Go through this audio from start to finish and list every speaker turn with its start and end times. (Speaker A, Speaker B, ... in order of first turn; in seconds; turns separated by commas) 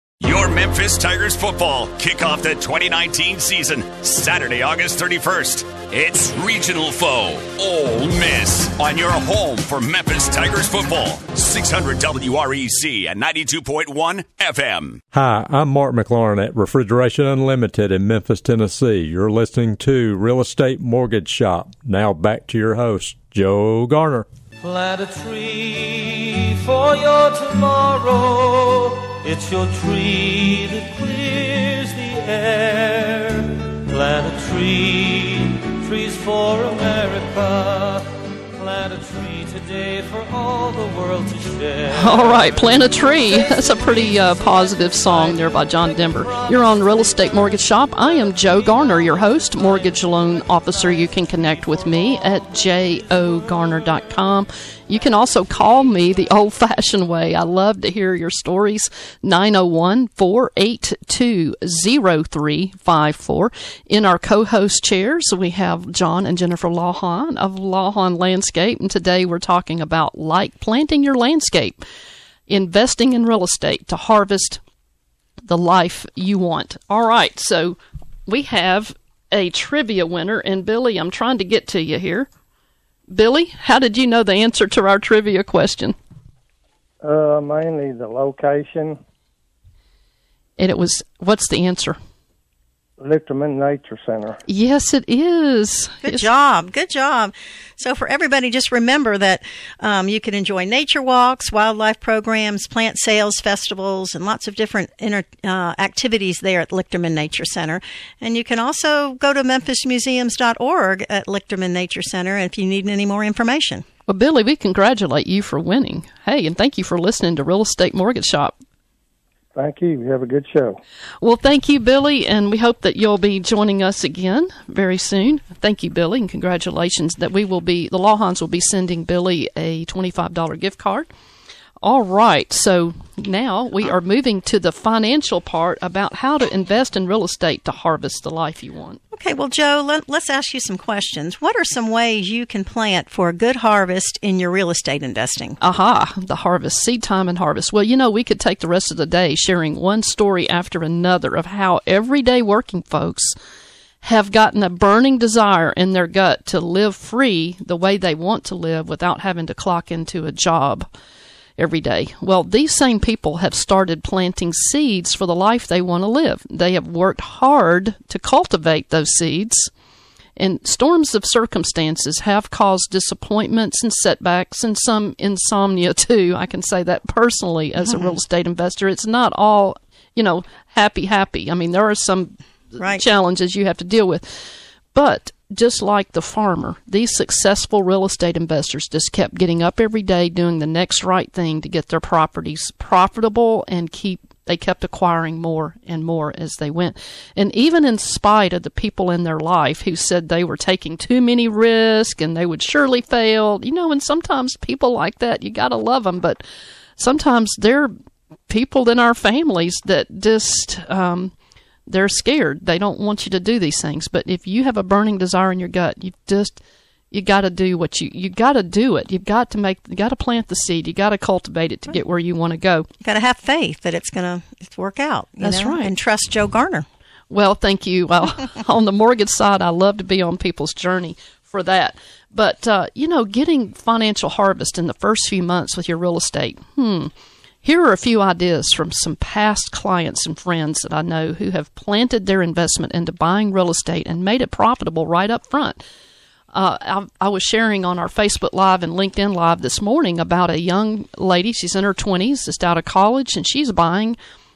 Speaker A: 0.2-15.0, Speaker B: 15.1-24.3, Speaker C: 24.6-47.1, Speaker D: 41.9-71.8, Speaker D: 72.5-74.6, Speaker D: 75.5-82.3, Speaker D: 83.1-86.0, Speaker E: 87.0-89.0, Speaker D: 90.6-92.0, Speaker E: 93.0-94.4, Speaker D: 94.5-96.3, Speaker F: 96.0-113.8, Speaker D: 114.1-118.6, Speaker E: 119.5-120.8, Speaker D: 121.2-131.1, Speaker D: 131.8-139.0, Speaker F: 139.1-145.6, Speaker D: 145.6-153.3, Speaker D: 154.0-160.9, Speaker D: 161.6-169.7, Speaker D: 170.4-206.4, Speaker F: 177.8-178.2, Speaker D: 207.0-207.9, Speaker D: 208.5-211.3, Speaker D: 211.9-216.6, Speaker D: 217.1-222.9, Speaker F: 223.0-226.9, Speaker D: 225.4-225.9, Speaker D: 227.3-237.1, Speaker D: 237.6-245.8, Speaker D: 246.5-254.2